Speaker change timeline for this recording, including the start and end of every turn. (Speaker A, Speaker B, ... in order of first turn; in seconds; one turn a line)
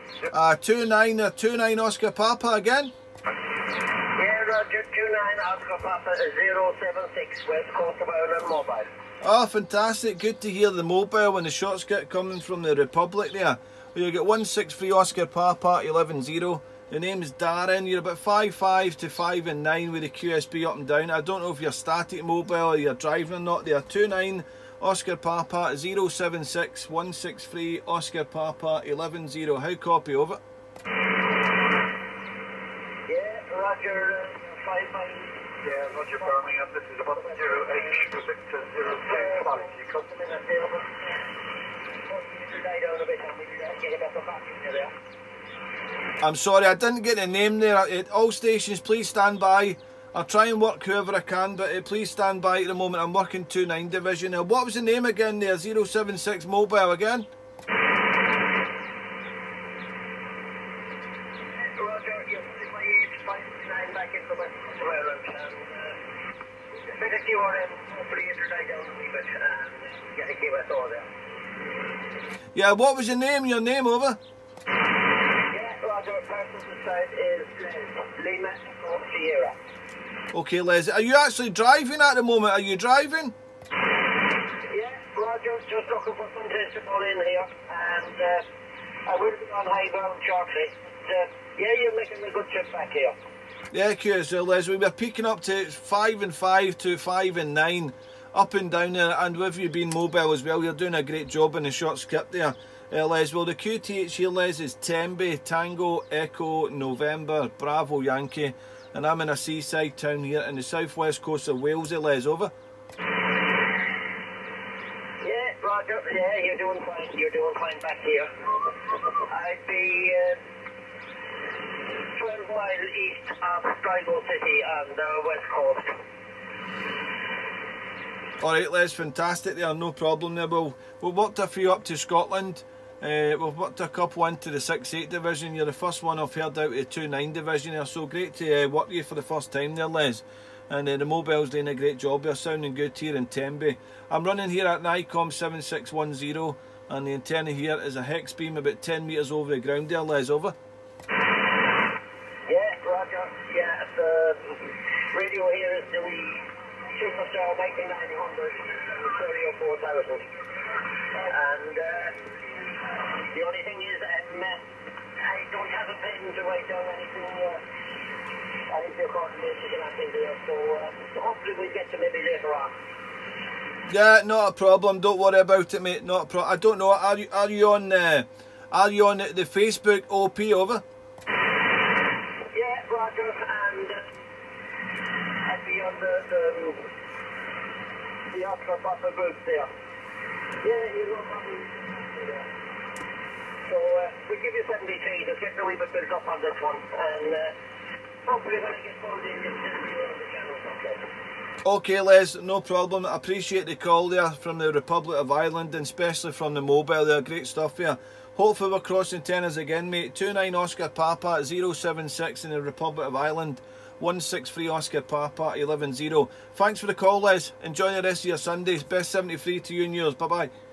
Speaker A: 0.3-2.9
Speaker B: 4.1-8.9
Speaker A: 9.2-30.4
Speaker B: 33.0-35.8
Speaker C: 35.6-39.7
Speaker B: 37.1-38.2
Speaker B: 38.9-40.9
Speaker B: 42.0-44.9
Speaker A: 46.2-57.3
Speaker B: 61.5-66.0
Speaker B: 66.7-71.1
Speaker A: 72.5-74.2
Speaker B: 75.5-79.5
Speaker A: 80.3-83.3
Speaker B: 84.7-88.4
Speaker B: 89.0-93.2
Speaker A: 93.7-112.5
Speaker B: 115.2-118.3
Speaker B: 119.2-120.4
Speaker B: 122.0-125.9
Speaker A: 128.4-150.5
Speaker B: 152.5-160.2
Speaker B: 161.1-162.2
Speaker B: 163.2-164.6
Speaker B: 165.2-167.6
Speaker B: 168.7-172.7
Speaker A: 173.9-180.8
Speaker B: 182.5-184.1
Speaker B: 185.4-186.9
Speaker B: 188.3-189.7
Speaker B: 190.6-192.5
Speaker B: 193.7-197.5
Speaker B: 198.2-201.0
Speaker A: 201.6-220.5